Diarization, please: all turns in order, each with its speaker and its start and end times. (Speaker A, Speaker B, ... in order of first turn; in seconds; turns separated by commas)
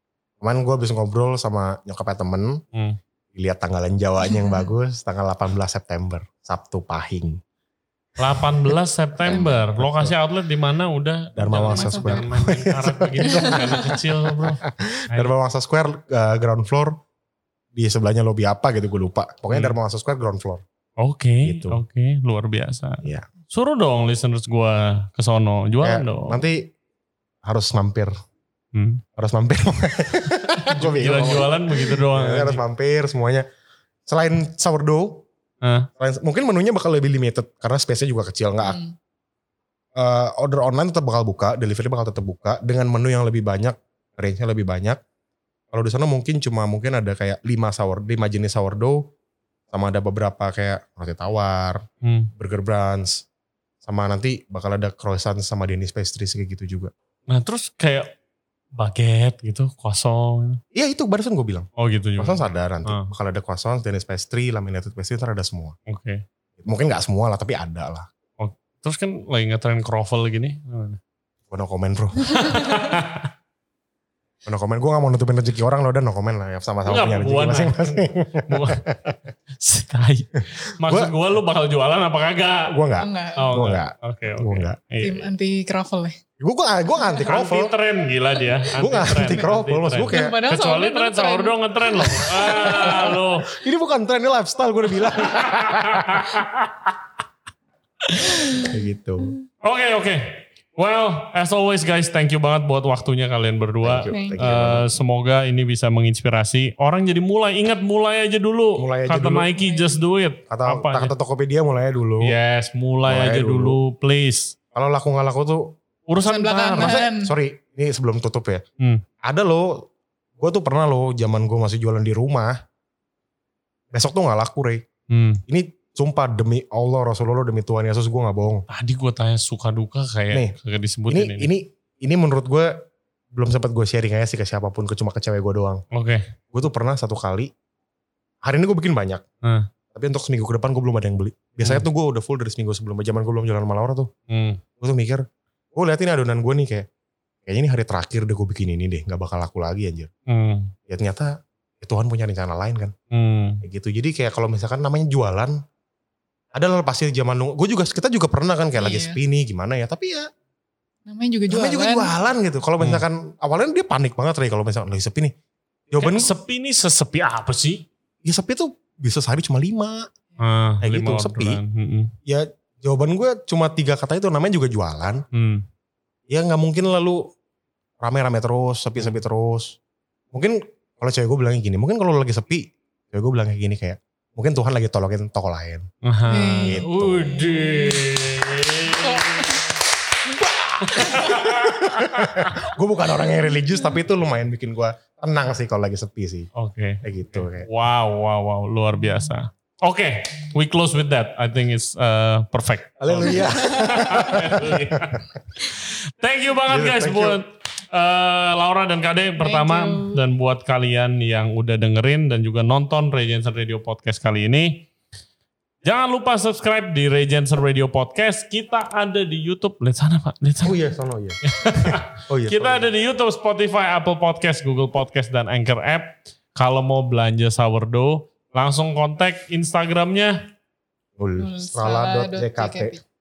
Speaker A: 0.4-2.6, Speaker B: 2.7-3.0, Speaker A: 3.4-7.4, Speaker B: 8.2-15.3, Speaker A: 9.2-10.1, Speaker A: 11.4-17.0, Speaker C: 11.7-12.3, Speaker C: 13.3-13.6, Speaker A: 17.8-20.6, Speaker B: 19.5-19.8, Speaker B: 21.0-26.4, Speaker A: 21.4-21.8, Speaker A: 23.0-23.3, Speaker A: 25.8-26.7, Speaker A: 27.4-28.1, Speaker B: 28.7-29.0, Speaker A: 29.2-33.5, Speaker B: 30.6-32.6, Speaker A: 34.1-35.3, Speaker B: 35.6-35.9, Speaker A: 36.0-38.8, Speaker C: 38.6-38.9, Speaker A: 40.0-45.0, Speaker A: 45.7-49.0, Speaker A: 49.7-51.8, Speaker B: 52.0-52.3, Speaker A: 52.4-53.2, Speaker A: 53.8-56.9, Speaker B: 57.3-58.1, Speaker B: 58.8-60.6, Speaker A: 60.7-61.7, Speaker B: 61.8-63.1, Speaker A: 62.2-65.8, Speaker B: 65.9-66.2, Speaker A: 66.6-68.1, Speaker B: 68.4-71.0, Speaker A: 71.5-72.6, Speaker B: 72.2-73.3, Speaker A: 74.5-79.2, Speaker B: 76.9-82.8, Speaker A: 80.6-81.1, Speaker A: 82.7-84.8, Speaker C: 83.0-83.6, Speaker B: 83.4-85.3, Speaker C: 85.0-86.2, Speaker A: 86.4-87.7, Speaker B: 87.2-93.6, Speaker A: 88.7-90.4, Speaker C: 89.0-89.5, Speaker C: 90.1-93.1, Speaker A: 92.5-96.5, Speaker B: 95.1-96.9, Speaker B: 98.1-98.5, Speaker A: 98.4-99.3, Speaker B: 99.6-111.1, Speaker A: 103.8-104.9, Speaker C: 104.1-104.5, Speaker A: 108.8-109.5, Speaker C: 109.6-110.0, Speaker A: 110.5-112.3, Speaker B: 112.2-114.6, Speaker A: 113.1-113.8, Speaker A: 114.7-115.8, Speaker B: 116.1-117.0, Speaker C: 116.2-117.3, Speaker A: 116.8-118.6, Speaker A: 119.2-119.9, Speaker A: 120.4-122.6, Speaker A: 123.9-124.8, Speaker B: 125.1-125.4, Speaker A: 125.5-128.7, Speaker B: 128.7-131.5, Speaker A: 131.1-132.7, Speaker A: 133.3-135.8, Speaker B: 135.9-136.2, Speaker A: 136.5-137.5, Speaker A: 138.4-139.2, Speaker A: 139.9-144.1, Speaker B: 144.3-144.6, Speaker A: 144.8-145.2, Speaker A: 145.8-146.9, Speaker A: 147.5-150.1, Speaker B: 150.3-150.7, Speaker A: 150.9-152.9, Speaker B: 153.1-153.6, Speaker A: 153.6-155.6, Speaker A: 156.6-160.3, Speaker C: 158.8-159.2, Speaker C: 161.1-162.1, Speaker A: 161.5-165.3, Speaker A: 165.9-166.3, Speaker B: 166.0-167.8, Speaker A: 168.2-170.1, Speaker B: 170.4-172.1, Speaker A: 170.8-171.6, Speaker A: 172.3-175.2, Speaker B: 175.3-175.6, Speaker A: 176.3-177.2, Speaker A: 178.0-179.8, Speaker A: 180.3-185.8, Speaker B: 186.0-189.7, Speaker C: 186.3-186.8, Speaker A: 186.6-187.5, Speaker C: 187.7-188.0, Speaker C: 188.9-189.7, Speaker A: 190.4-196.5, Speaker B: 190.8-192.7, Speaker B: 196.6-214.9, Speaker A: 197.0-197.7, Speaker A: 203.0-205.3, Speaker A: 206.7-207.4, Speaker C: 209.4-210.2, Speaker B: 215.8-220.8, Speaker A: 220.6-222.9, Speaker B: 221.4-230.4, Speaker A: 231.2-233.0, Speaker C: 231.4-233.0